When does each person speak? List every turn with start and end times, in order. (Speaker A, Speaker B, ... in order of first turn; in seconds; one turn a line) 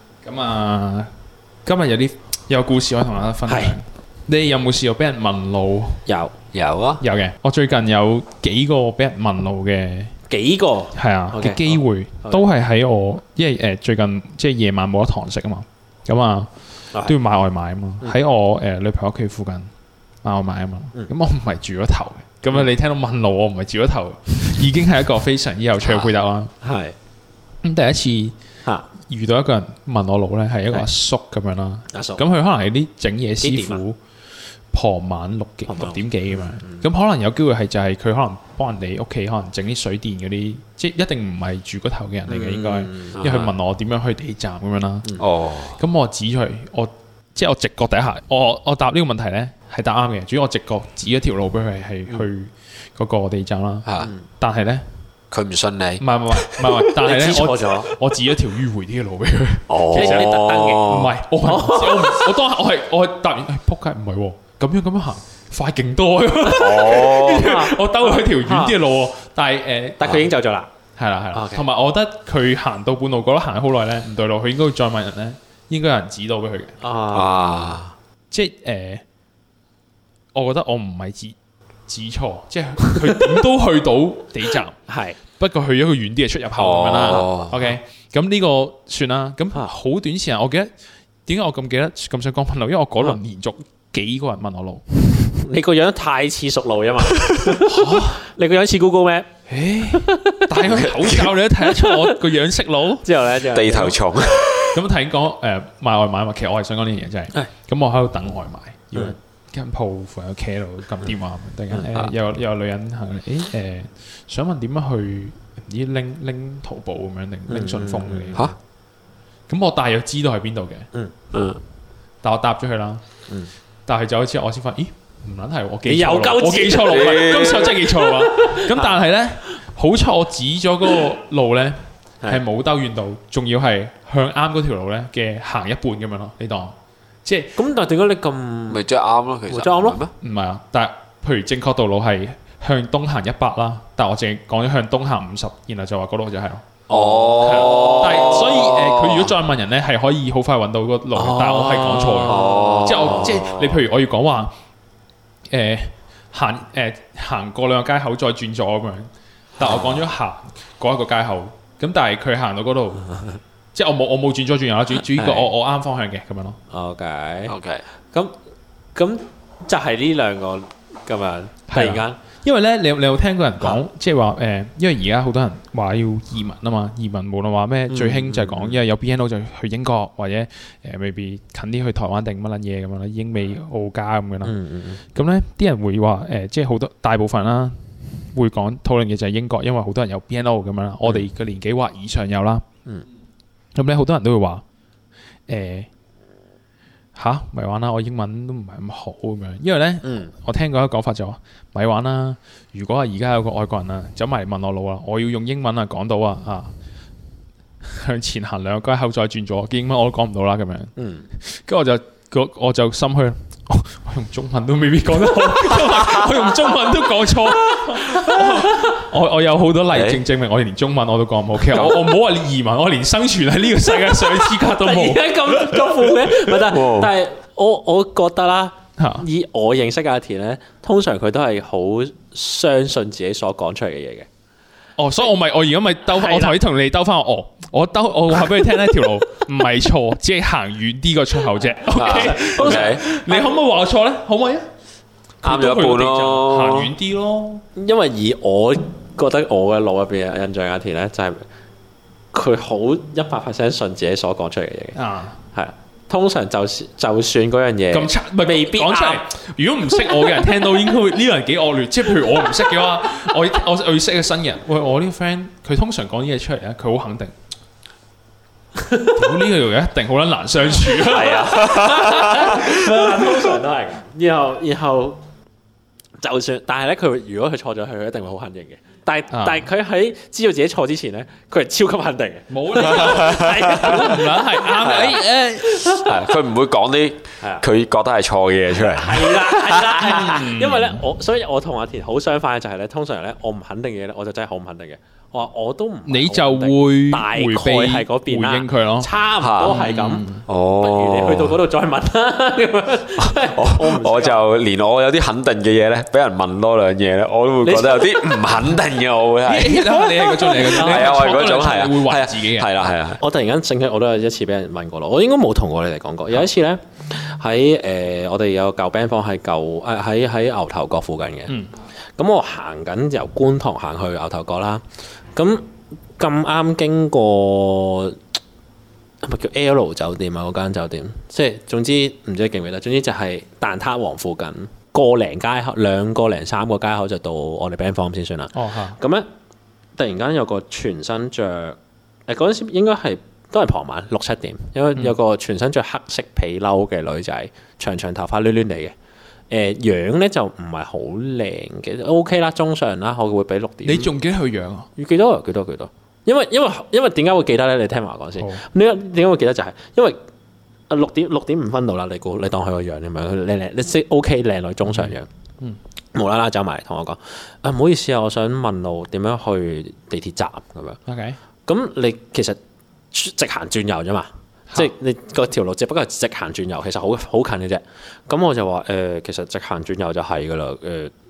Speaker A: 0.2-1.1
Speaker A: 1.6-6.0
Speaker B: 3.5-3.8
Speaker B: 6.1-6.3
Speaker C: 6.5-7.0
Speaker A: 7.0-10.1
Speaker B: 10.3-12.4
Speaker A: 11.0-16.5
Speaker A: 17.1-19.7
Speaker A: 20.2-26.5
Speaker B: 25.8-26.9
Speaker A: 27.6-28.4
Speaker A: 29.0-34.0
Speaker B: 31.9-32.2
Speaker B: 33.4-33.8
Speaker A: 34.7-45.1
Speaker B: 35.7-36.8
Speaker B: 42.3-43.5
Speaker C: 43.2-43.5
Speaker C: 45.2-45.8
Speaker A: 45.8-53.9
Speaker A: 54.4-54.9
Speaker C: 55.3-56.0
Speaker A: 56.0-70.3
Speaker B: 57.0-57.9
Speaker C: 59.7-61.1
Speaker B: 59.9-62.3
Speaker B: 66.5-68.8
Speaker C: 66.6-67.6
Speaker B: 70.0-70.7
Speaker A: 71.0-76.8
Speaker B: 71.3-71.6
Speaker B: 76.8-77.8
Speaker C: 77.1-77.9
Speaker A: 78.3-79.0
Speaker A: 80.3-81.3
Speaker A: 81.9-84.8
Speaker B: 82.8-83.2
Speaker B: 84.9-85.2
Speaker A: 85.4-90.7
Speaker C: 86.6-87.6
Speaker A: 91.3-94.8
Speaker B: 95.3-99.3
Speaker A: 97.6-98.2
Speaker A: 99.5-103.1
Speaker B: 99.9-100.5
Speaker C: 100.7-101.3
Speaker B: 101.6-102.2
Speaker B: 103.0-104.0
Speaker C: 103.4-104.8
Speaker A: 104.7-118.4
Speaker B: 117.5-118.5
Speaker A: 119.5-120.9
Speaker C: 121.3-121.6
Speaker A: 122.2-123.0
Speaker A: 123.9-137.6
Speaker B: 125.9-128.9
Speaker C: 126.8-127.9
Speaker B: 137.6-138.8
Speaker C: 138.7-140.1
Speaker B: 139.5-140.0
Speaker A: 140.2-154.5
Speaker B: 146.9-148.0
Speaker C: 146.9-149.3
Speaker B: 151.2-153.5
Speaker C: 152.3-153.7
Speaker A: 155.5-163.2
Speaker B: 159.6-160.0
Speaker A: 163.8-166.6
Speaker B: 165.1-165.5
Speaker B: 166.7-167.6
Speaker C: 167.5-167.8
Speaker B: 168.9-172.2
Speaker A: 171.7-184.6
Speaker B: 177.9-178.8
Speaker B: 184.4-185.0
Speaker A: 185.1-192.7
Speaker A: 193.8-194.6
Speaker A: 195.5-195.9
Speaker A: 197.2-206.7
Speaker B: 200.0-200.3
Speaker A: 207.8-226.2
Speaker B: 211.0-211.3
Speaker B: 216.5-216.9
Speaker B: 217.7-218.9
Speaker C: 219.9-220.2
Speaker B: 224.1-234.3
Speaker C: 226.6-227.1
Speaker A: 229.0-229.3
Speaker A: 235.0-244.7
Speaker B: 236.1-236.6
Speaker B: 241.8-243.6
Speaker C: 242.0-243.0
Speaker A: 245.4-247.6
Speaker C: 245.4-246.9
Speaker B: 247.8-251.4
Speaker B: 252.3-255.0
Speaker A: 255.0-255.4
Speaker B: 255.5-259.3
Speaker A: 257.9-267.3
Speaker B: 260.0-260.2
Speaker B: 268.8-269.2
Speaker A: 269.1-273.5
Speaker B: 270.8-275.2
Speaker C: 271.1-272.7
Speaker B: 276.2-285.1
Speaker A: 279.3-279.7
Speaker A: 282.5-285.9
Speaker C: 283.0-283.6
Speaker C: 284.8-285.2
Speaker B: 285.6-286.1
Speaker C: 285.9-290.0
Speaker B: 288.7-304.4
Speaker A: 290.0-291.0
Speaker A: 296.1-299.1
Speaker C: 299.4-299.8
Speaker A: 299.6-300.4
Speaker C: 300.5-301.6
Speaker C: 303.2-313.2
Speaker B: 307.6-308.2
Speaker A: 309.4-312.8
Speaker B: 310.4-311.3
Speaker B: 313.2-321.6
Speaker B: 322.2-324.8
Speaker B: 325.4-325.6
Speaker B: 326.2-328.2
Speaker B: 329.2-339.3
Speaker A: 338.5-339.0
Speaker B: 340.0-348.9
Speaker B: 349.5-354.1
Speaker A: 353.9-354.9
Speaker B: 355.0-360.2
Speaker B: 360.9-365.3
Speaker A: 364.9-365.8
Speaker B: 366.1-371.0
Speaker A: 371.1-371.4
Speaker B: 371.7-372.6
Speaker B: 373.1-381.1